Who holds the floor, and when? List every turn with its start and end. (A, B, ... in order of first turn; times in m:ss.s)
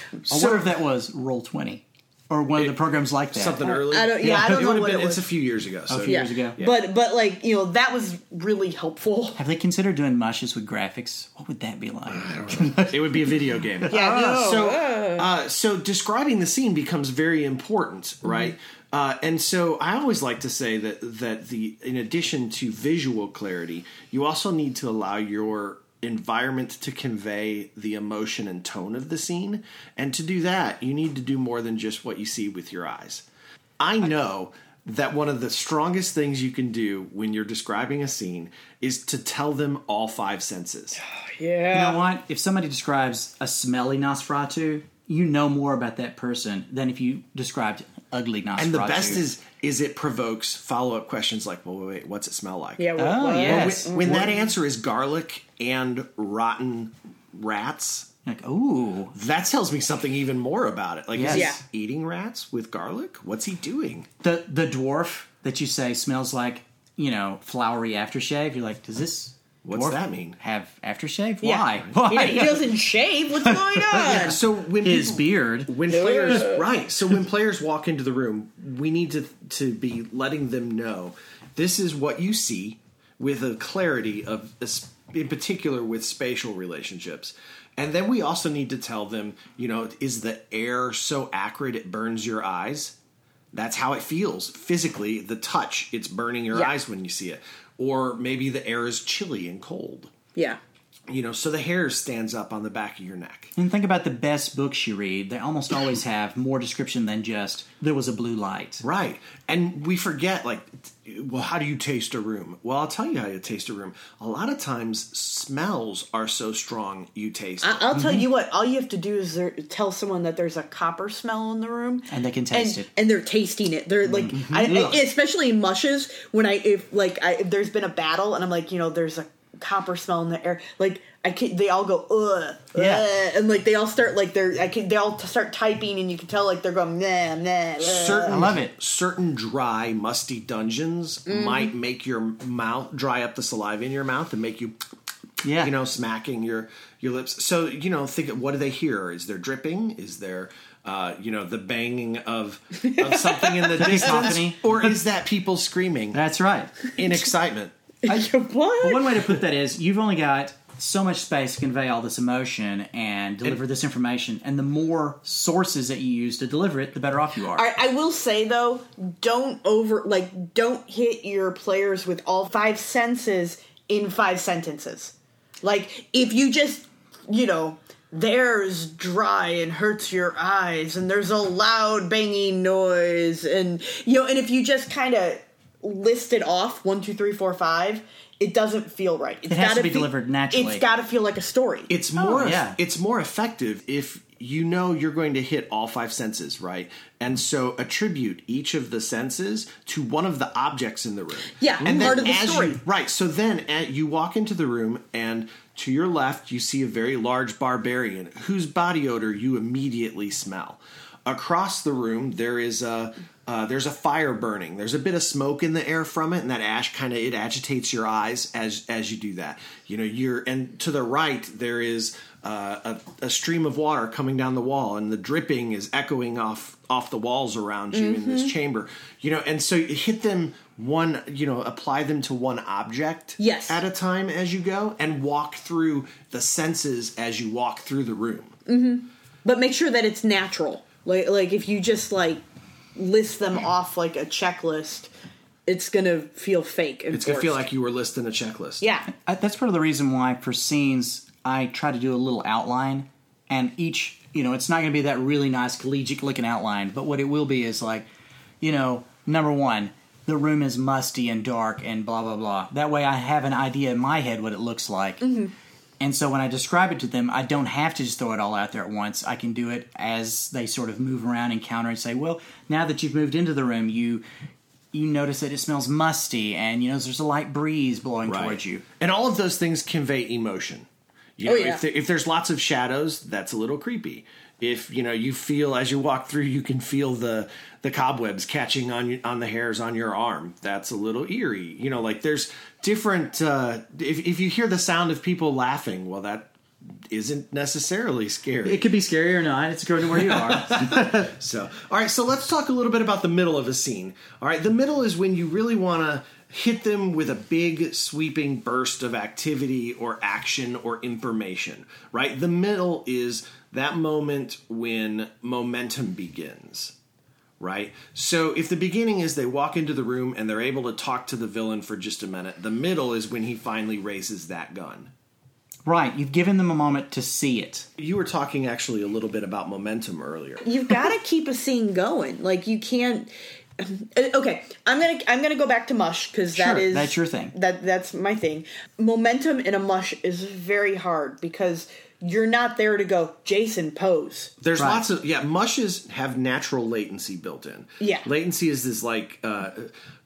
0:00.3-0:03.7 A
0:00.3-0:00.6 B
0:03.3-0:06.8 B
0:03.6-0:05.3 C
0:05.9-0:06.6 A
0:06.0-0:09.4 C
0:09.4-0:13.2 A
0:12.1-0:33.2 B
0:13.9-0:15.2 C
0:33.8-0:41.0 B
0:41.1-0:42.0 C
0:41.7-0:49.2 A
0:48.6-0:58.1 B
0:52.8-0:54.3 C
0:53.0-0:54.2 A
0:58.2-0:59.1 A
0:59.1-1:04.1 B
1:01.1-1:01.5 A
1:01.3-1:01.6 C
1:04.2-1:12.7 A
1:09.6-1:10.4 B
1:11.4-1:14.4 C
1:13.4-1:16.4 A
1:14.0-1:33.0 B
1:15.9-1:16.7 C
1:33.5-1:40.1 B
1:41.1-1:43.5 B
1:43.6-1:48.8 A
1:48.8-1:57.9 B
1:57.6-2:18.5 C
1:57.9-1:58.2 A
2:02.1-2:02.9 A
2:04.0-2:05.0 A
2:12.7-2:13.1 A
2:17.8-2:24.8 B
2:18.2-2:18.7 A
2:21.3-2:21.7 C
2:25.4-2:25.7 A
2:25.6-2:36.2 B
2:32.8-2:34.3 C
2:33.8-2:34.8 A
2:36.1-2:36.9 A
2:36.9-2:37.7 B
2:38.0-2:39.4 C
2:38.1-2:47.7 A
2:47.5-3:11.9 C
3:09.5-3:10.8 A
3:11.9-3:58.6 B
3:12.2-3:12.8 A
3:21.6-3:22.8 C
3:47.9-3:48.5 C
3:53.4-3:53.8 C
3:58.7-4:02.4 C
4:02.9-4:05.1 C
4:05.7-4:07.6 C
4:07.1-4:08.8 B
4:08.8-4:09.1 C
4:09.1-4:18.0 A
4:18.6-4:25.3 A
4:25.2-4:25.5 C
4:26.0-4:34.2 A
4:34.9-4:38.8 A
4:38.3-4:40.9 B
4:41.4-4:56.5 B
4:41.4-4:41.8 C
4:57.1-4:58.8 B
4:58.6-5:01.3 A
5:00.1-5:16.9 B
5:17.6-5:25.1 B
5:25.8-5:27.9 A
5:28.0-5:30.6 B
5:30.6-5:44.5 C
5:36.5-5:37.5 A
5:44.6-5:49.9 B
5:44.7-5:45.0 A
5:48.0-5:48.3 C